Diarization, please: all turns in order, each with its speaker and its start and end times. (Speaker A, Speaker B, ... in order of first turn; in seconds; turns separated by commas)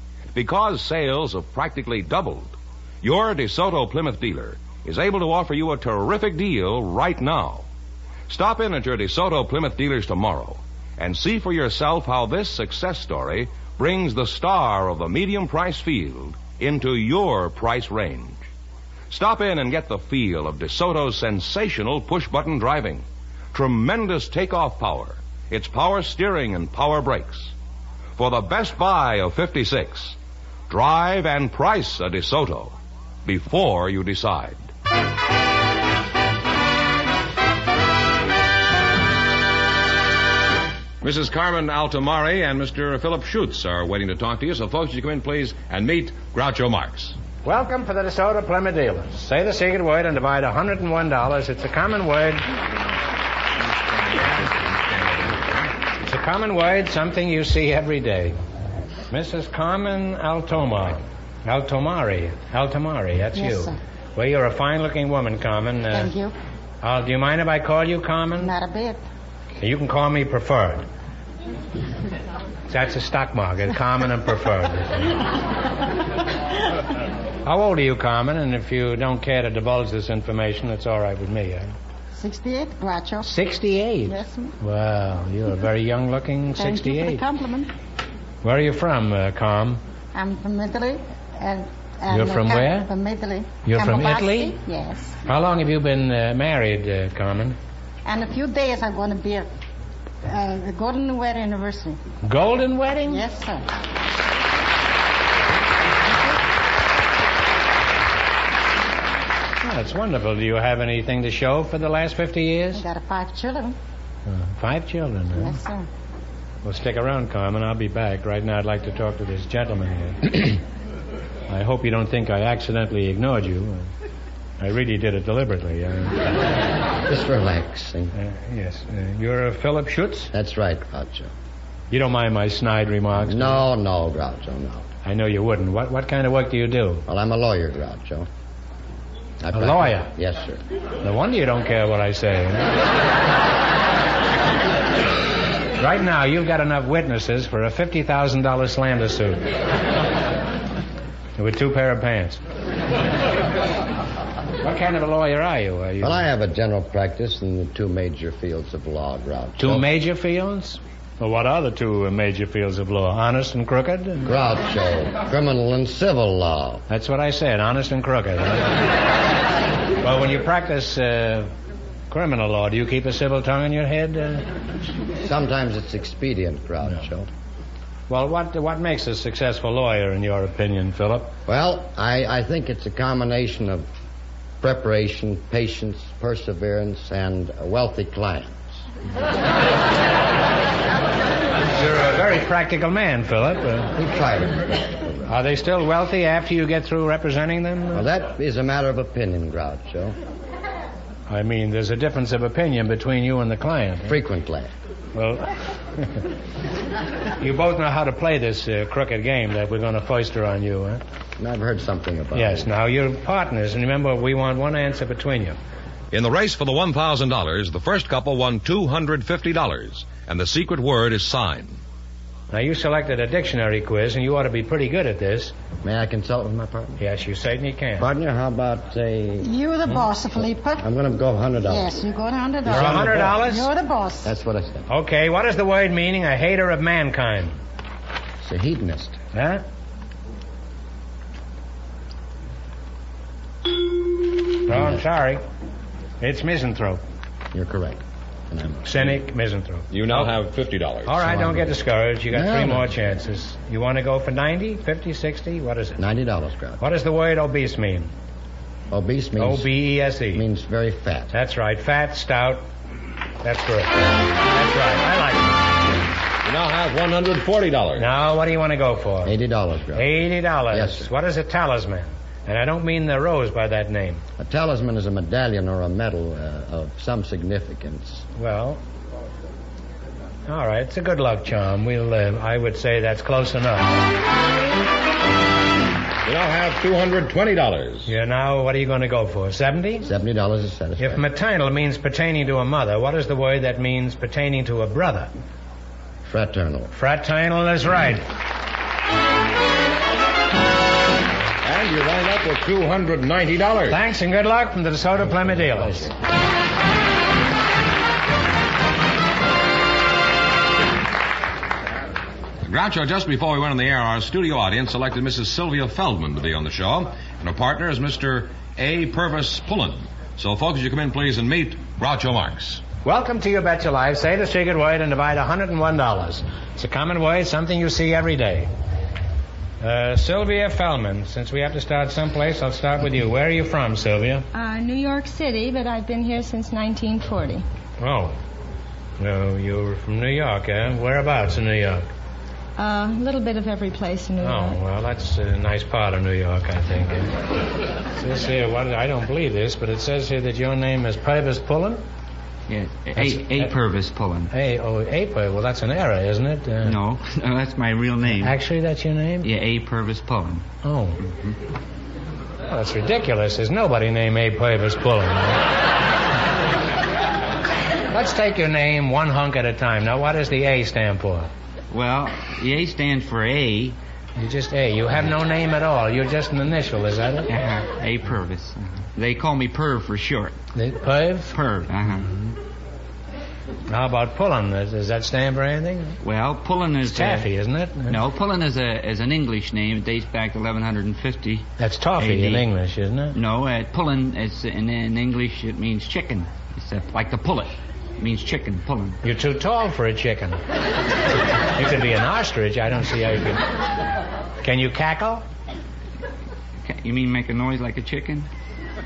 Speaker A: 0.3-7.7, Speaker A: 8.3-18.4, Speaker A: 19.1-27.5, Speaker A: 28.2-30.2, Speaker A: 30.7-34.7, Speaker A: 41.0-47.2, Speaker B: 47.4-52.5, Speaker A: 53.7-55.7, Speaker B: 56.0-58.4, Speaker B: 59.1-66.1, Speaker C: 63.4-63.8, Speaker C: 65.9-66.3, Speaker B: 66.8-68.5, Speaker C: 68.4-69.0, Speaker B: 69.6-70.9, Speaker B: 72.7-75.2, Speaker B: 77.5-81.7, Speaker C: 82.1-83.3, Speaker B: 83.2-87.2, Speaker C: 84.1-84.5, Speaker C: 86.5-87.7, Speaker B: 88.4-89.8, Speaker C: 90.1-95.2, Speaker B: 92.1-92.9, Speaker B: 93.7-94.6, Speaker B: 95.3-97.6, Speaker C: 98.0-99.5, Speaker C: 100.2-102.0, Speaker B: 102.2-103.2, Speaker C: 103.1-103.7, Speaker B: 109.6-112.8, Speaker C: 112.7-113.8, Speaker B: 114.3-115.6, Speaker C: 115.3-115.9, Speaker B: 116.6-120.6, Speaker B: 121.5-123.9, Speaker B: 124.6-126.3, Speaker D: 127.1-128.1, Speaker B: 128.1-130.3, Speaker D: 130.3-131.3, Speaker B: 131.9-133.7, Speaker D: 133.2-134.9, Speaker B: 135.0-137.1, Speaker D: 137.1-138.3, Speaker D: 139.4-140.6, Speaker B: 139.5-140.1, Speaker B: 141.0-142.8, Speaker B: 145.8-149.5, Speaker B: 151.4-152.4, Speaker B: 154.6-156.3, Speaker D: 156.0-159.8, Speaker B: 159.6-164.3, Speaker D: 164.2-166.8, Speaker B: 166.9-168.8, Speaker B: 170.0-171.5, Speaker B: 172.1-174.5, Speaker D: 175.2-177.3, Speaker B: 178.1-181.3, Speaker D: 181.5-183.9, Speaker D: 184.6-188.8, Speaker B: 191.8-194.0, Speaker D: 193.9-195.3, Speaker B: 195.3-198.1, Speaker D: 197.9-200.2, Speaker B: 201.3-204.2, Speaker D: 204.1-204.7, Speaker B: 205.1-206.2, Speaker B: 207.4-211.0, Speaker D: 211.4-212.7, Speaker B: 212.3-215.6, Speaker A: 216.1-221.8, Speaker B: 222.5-225.5, Speaker D: 225.8-227.0, Speaker B: 227.0-228.1, Speaker D: 228.0-229.5, Speaker C: 229.4-230.8, Speaker D: 230.4-231.9, Speaker C: 231.7-234.3, Speaker D: 232.7-233.5, Speaker B: 232.7-233.7, Speaker D: 234.2-234.9, Speaker B: 234.9-237.6, Speaker D: 238.4-239.2, Speaker B: 239.3-239.6, Speaker B: 244.7-245.4, Speaker D: 244.7-245.0, Speaker B: 246.2-247.0, Speaker D: 247.5-249.1, Speaker B: 248.8-250.3, Speaker A: 249.9-251.2, Speaker B: 251.1-256.0, Speaker D: 251.3-251.7, Speaker D: 252.3-252.9, Speaker D: 256.0-256.8, Speaker B: 256.8-258.1, Speaker D: 258.9-259.7, Speaker B: 259.4-260.4, Speaker D: 260.3-261.3, Speaker B: 261.3-262.7, Speaker B: 263.4-265.8, Speaker A: 266.4-268.1, Speaker B: 268.0-269.4, Speaker D: 269.2-270.1, Speaker B: 269.9-274.2, Speaker D: 270.7-271.1, Speaker D: 274.4-278.2, Speaker B: 278.4-278.8, Speaker B: 280.5-284.1, Speaker A: 286.2-288.1, Speaker B: 288.1-290.1, Speaker D: 290.0-291.2, Speaker B: 291.0-295.3, Speaker D: 296.2-296.9, Speaker B: 296.9-298.3, Speaker A: 301.6-304.0, Speaker B: 303.9-306.1, Speaker D: 305.5-306.1, Speaker A: 312.6-322.8, Speaker B: 323.0-328.7, Speaker B: 329.8-334.4, Speaker E: 334.5-337.6, Speaker B: 338.0-338.4, Speaker B: 339.2-342.1, Speaker E: 342.8-344.8, Speaker B: 344.4-347.4, Speaker B: 348.1-352.0, Speaker F: 352.7-354.5, Speaker B: 353.1-353.7, Speaker B: 354.5-357.0, Speaker F: 356.8-358.6, Speaker B: 358.4-359.5, Speaker F: 359.4-360.7, Speaker B: 360.8-361.2, Speaker F: 361.2-361.6, Speaker B: 362.7-365.6, Speaker B: 368.1-371.5, Speaker F: 371.9-374.0, Speaker B: 374.4-377.5, Speaker F: 377.5-380.6, Speaker B: 380.8-381.6, Speaker F: 381.5-382.3, Speaker B: 383.9-386.2, Speaker F: 386.2-387.5, Speaker B: 387.0-388.2, Speaker F: 388.1-392.7, Speaker B: 391.8-393.4, Speaker F: 393.3-399.2, Speaker B: 399.2-400.6, Speaker B: 401.8-403.6, Speaker B: 404.6-405.4, Speaker F: 406.8-408.5